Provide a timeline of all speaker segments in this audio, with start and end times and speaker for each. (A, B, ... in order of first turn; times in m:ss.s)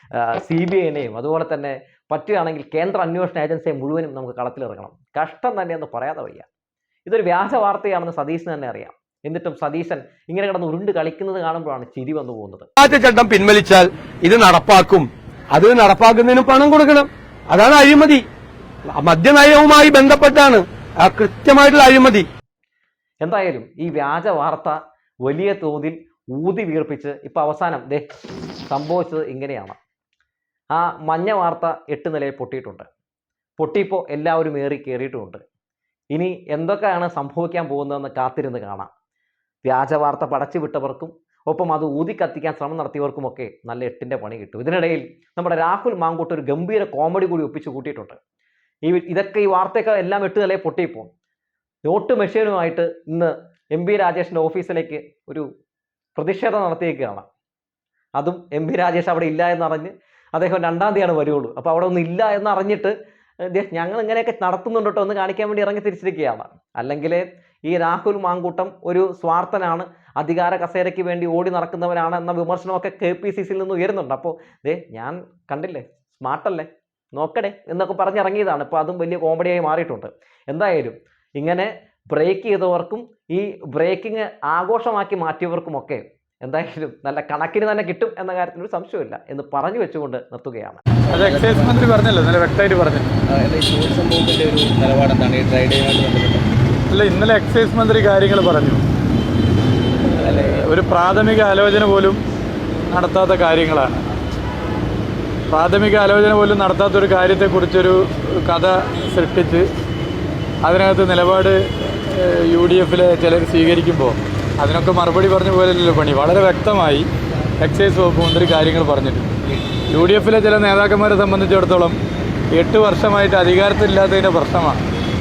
0:00.1-0:06.4 A
0:07.0-0:12.7 A
0:12.8-0:18.2 B
0:18.9-0:22.3 B
0:23.2-0:28.0 A
0:28.7-0:29.8 A
0:30.7-0:32.8 A
0:33.6-0:35.4 A
0:36.1-0:38.9 A
0:39.6-0:48.2 A
0:48.8-0:51.1 A
0:51.8-0:55.5 A
0:56.2-0:57.2 A
0:58.2-1:02.9 A
1:03.5-1:30.8 A
1:31.1-1:31.8 C
1:31.1-1:33.1 D
1:33.3-1:36.5 C
1:36.9-1:38.8 D
1:40.2-1:40.6 C
1:40.3-1:42.2 D
1:42.9-1:44.0 D
1:45.5-1:49.7 D
1:50.6-1:57.1 D
1:57.6-1:59.3 D
1:59.9-2:02.0 D
2:02.5-2:04.8 D